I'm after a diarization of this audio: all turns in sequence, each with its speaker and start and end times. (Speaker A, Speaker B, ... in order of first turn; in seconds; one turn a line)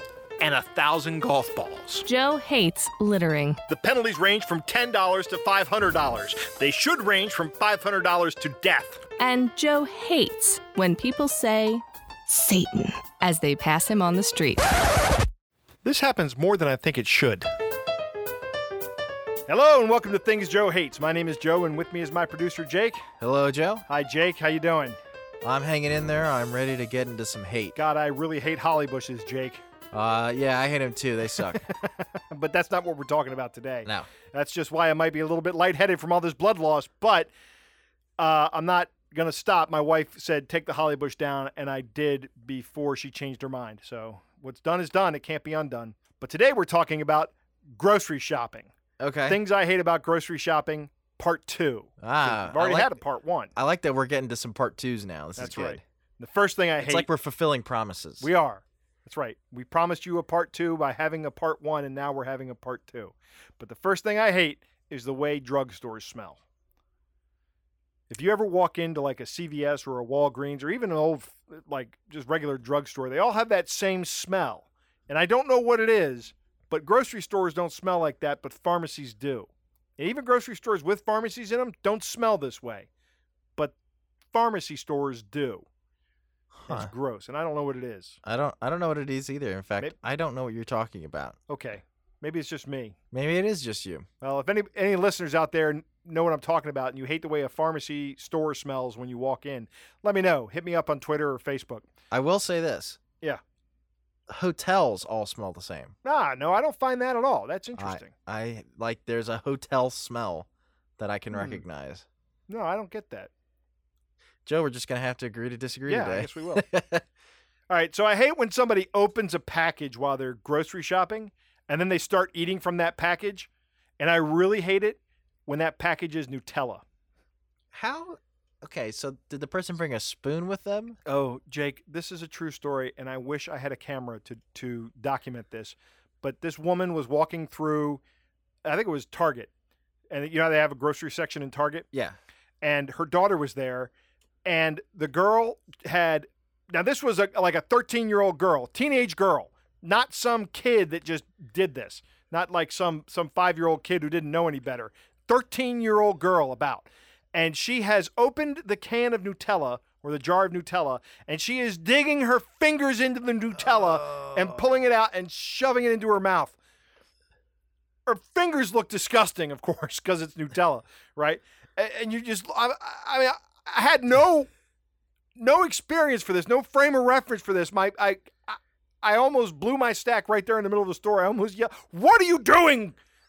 Speaker A: 0.4-2.0
Speaker B: 2.0-3.6
Speaker A: 3.7-9.0
Speaker B: 9.2-14.7
Speaker A: 15.8-17.5
Speaker A: 19.5-23.1
Speaker C: 23.2-23.9
Speaker A: 23.9-25.0
Speaker C: 25.4-27.7
Speaker A: 27.7-29.6
Speaker C: 29.9-31.6
Speaker A: 31.6-37.3
Speaker A: 38.2-48.7
Speaker C: 49.0-49.4
Speaker A: 49.3-53.5
Speaker C: 52.0-53.0
Speaker C: 53.5-55.8
Speaker A: 55.4-57.1
Speaker C: 56.8-58.3
Speaker A: 58.2-66.4
Speaker A: 68.1-82.9
Speaker A: 84.3-85.6
Speaker C: 86.5-86.9
Speaker A: 86.7-88.2
Speaker C: 88.2-91.4
Speaker A: 91.5-93.0
Speaker C: 93.1-94.0
Speaker A: 94.2-101.8
Speaker C: 102.1-103.0
Speaker C: 104.3-105.9
Speaker A: 106.0-108.1
Speaker C: 107.8-110.5
Speaker C: 111.0-112.0
Speaker A: 111.3-111.6
Speaker A: 112.5-113.3
Speaker C: 114.4-117.0
Speaker A: 115.9-116.6
Speaker A: 117.7-126.8
Speaker C: 127.7-131.0
Speaker A: 131.1-138.0
Speaker A: 138.6-139.5
Speaker A: 140.1-141.9
Speaker A: 142.6-143.9
Speaker A: 144.4-166.5
Speaker C: 163.7-164.5
Speaker A: 168.1-174.5
Speaker A: 175.3-183.0